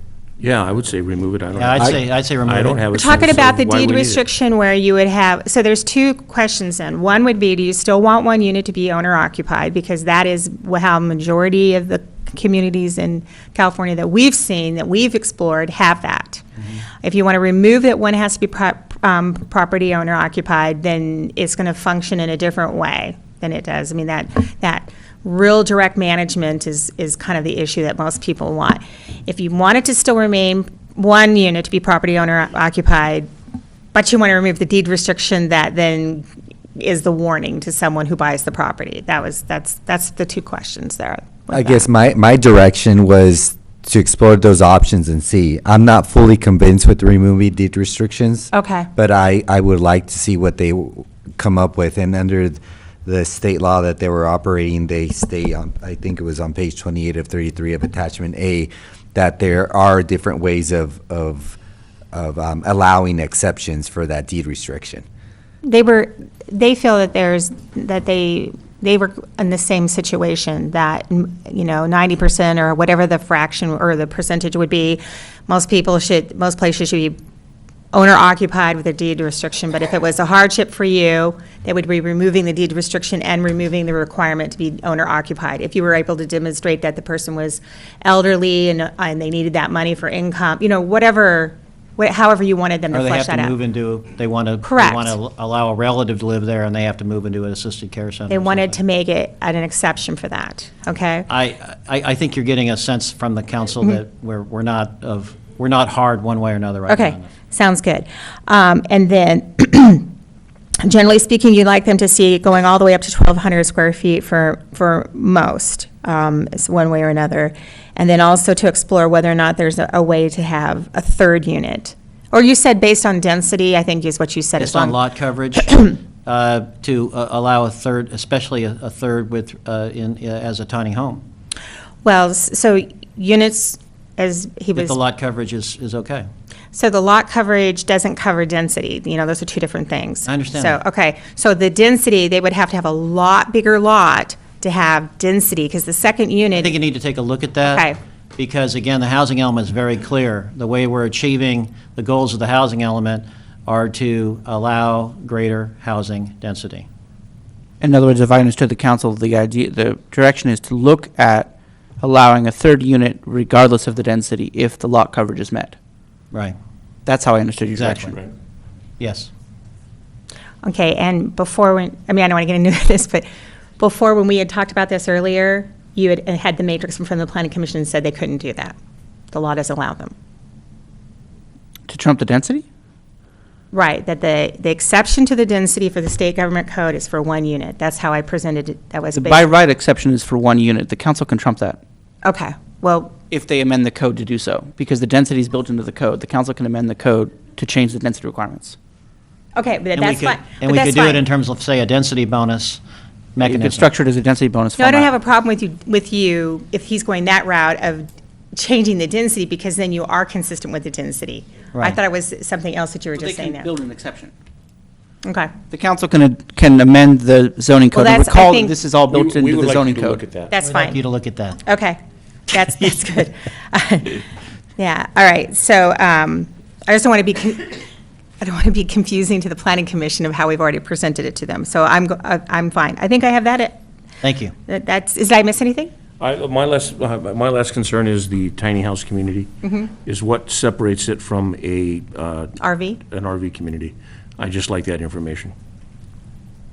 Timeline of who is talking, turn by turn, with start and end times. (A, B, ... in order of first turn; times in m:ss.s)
0:00.4-0:04.2 A
0:01.5-0:02.9 B
0:02.9-0:16.4 C
0:17.0-0:33.3 C
0:33.9-0:41.9 C
0:41.5-1:01.6 D
0:48.5-0:48.9 C
1:02.1-1:05.0 D
1:05.6-1:17.2 C
1:17.9-1:33.6 C
1:32.9-1:38.8 B
1:34.6-1:35.2 C
1:38.3-1:41.3 C
1:41.3-1:47.3 B
1:46.9-1:50.1 C
1:50.8-2:05.0 C
2:04.6-2:11.2 B
2:12.0-2:15.0 C
2:14.8-2:16.3 B
2:16.7-2:26.8 C
2:20.3-2:20.8 B
2:26.6-2:36.9 B
2:27.7-2:28.0 C
2:37.8-2:45.8 E
2:47.1-2:48.1 E
2:47.7-2:48.2 B
2:49.0-2:49.3 B
2:50.6-2:53.3 C
2:53.8-2:58.8 C
2:59.3-3:00.1 C
3:01.9-3:02.6 E
3:03.7-3:09.5 C
3:09.1-3:11.8 E
3:12.2-3:13.1 C
3:13.3-3:18.8 E
3:19.6-3:21.2 C
3:20.0-3:22.8 B
3:23.4-3:23.9 B
3:23.4-3:25.1 E
3:24.8-3:33.7 C
3:33.2-3:34.3 E
3:35.2-3:35.5 C
3:35.7-3:40.2 E
3:37.9-3:38.8 C
3:39.1-3:40.6 A
3:40.5-3:41.0 C
3:40.6-3:41.6 B
3:41.6-3:44.3 C
3:44.8-3:47.8 C
3:48.4-3:53.8 C
3:54.2-3:54.5 B
3:54.7-3:55.9 C
3:56.2-4:05.5 A
3:59.6-3:59.9 C
4:02.6-4:03.0 C